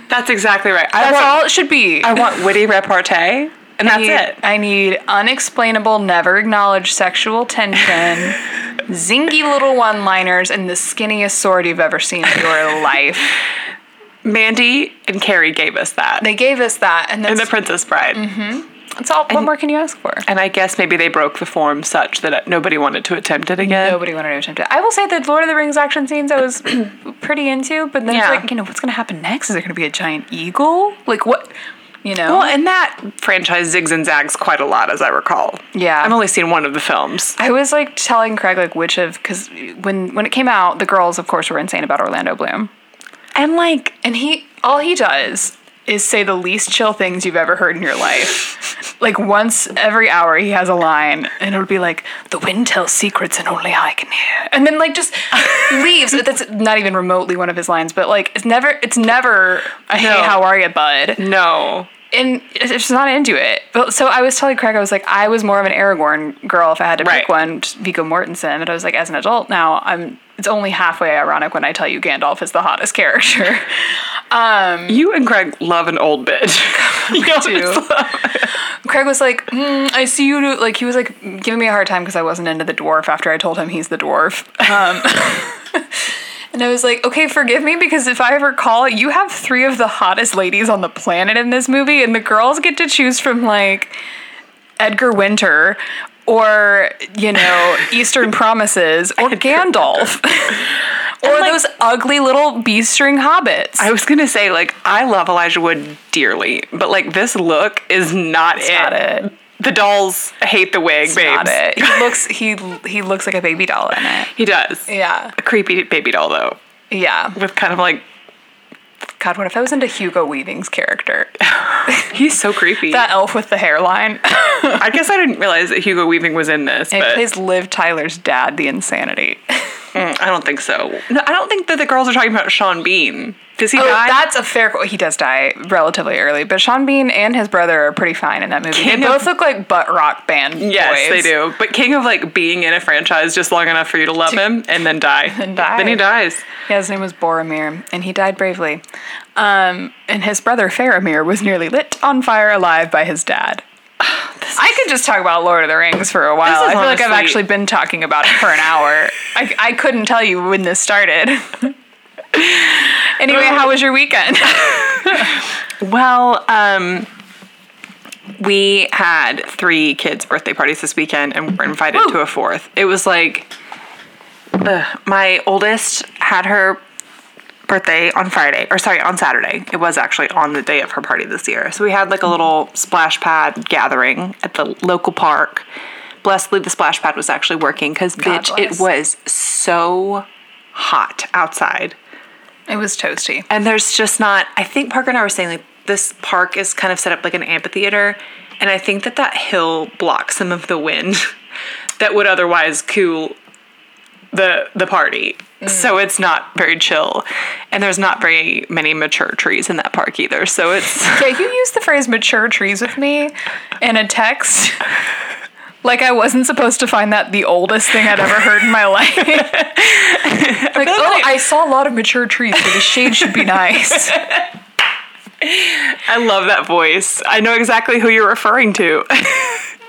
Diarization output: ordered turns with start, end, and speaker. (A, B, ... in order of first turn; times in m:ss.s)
0:00.1-0:04.4 A
0:01.0-0:02.2 B
0:03.8-0:13.4 B
0:14.2-0:16.3 A
0:16.2-0:17.5 B
0:17.3-0:18.2 A
0:18.1-0:20.3 B
0:20.2-0:24.0 A
0:23.6-0:31.5 B
0:28.1-0:28.4 A
0:32.0-0:32.5 B
0:32.3-0:37.4 A
0:35.7-0:36.2 B
0:37.4-0:42.7 B
0:43.4-0:44.0 A
0:44.0-1:01.2 B
1:00.0-1:00.5 A
1:01.2-1:01.9 A
1:02.1-1:15.0 B
1:07.0-1:07.3 A
1:14.9-1:18.6 A
1:16.8-1:17.8 B
1:18.7-1:33.9 B
1:34.8-1:43.9 B
1:41.2-1:41.6 A
1:43.8-1:52.1 A
1:48.6-1:49.3 B
1:51.1-1:54.3 B
1:54.3-1:56.6 A
1:54.9-1:55.4 B
1:56.9-1:57.4 B
1:57.4-1:58.0 A
1:59.2-2:02.1 B
2:01.7-2:03.1 A
2:02.8-2:04.9 B
2:04.7-2:07.2 A
2:06.9-2:09.7 B
2:09.9-2:14.3 A
2:13.7-2:21.3 B
2:18.7-2:19.3 A
2:20.6-2:26.5 A
2:25.3-2:26.1 B
2:26.6-2:28.8 B
2:29.4-2:33.6 B
2:34.0-2:34.7 A
2:34.5-2:41.8 B
2:36.4-2:37.4 A
2:42.3-2:45.4 B
2:45.8-2:47.1 A
2:48.4-2:53.5 A
2:54.6-2:56.8 A
2:57.7-3:05.7 A
3:06.2-3:12.0 A
3:08.2-3:08.9 B
3:12.7-3:13.5 B
3:13.5-3:21.3 A
3:22.0-3:23.4 A
3:24.3-3:31.3 A
3:31.1-3:34.9 B
3:35.8-3:44.3 B
3:39.4-3:41.4 A
3:42.8-3:43.5 A
3:44.1-3:44.5 A
3:45.4-3:49.7 A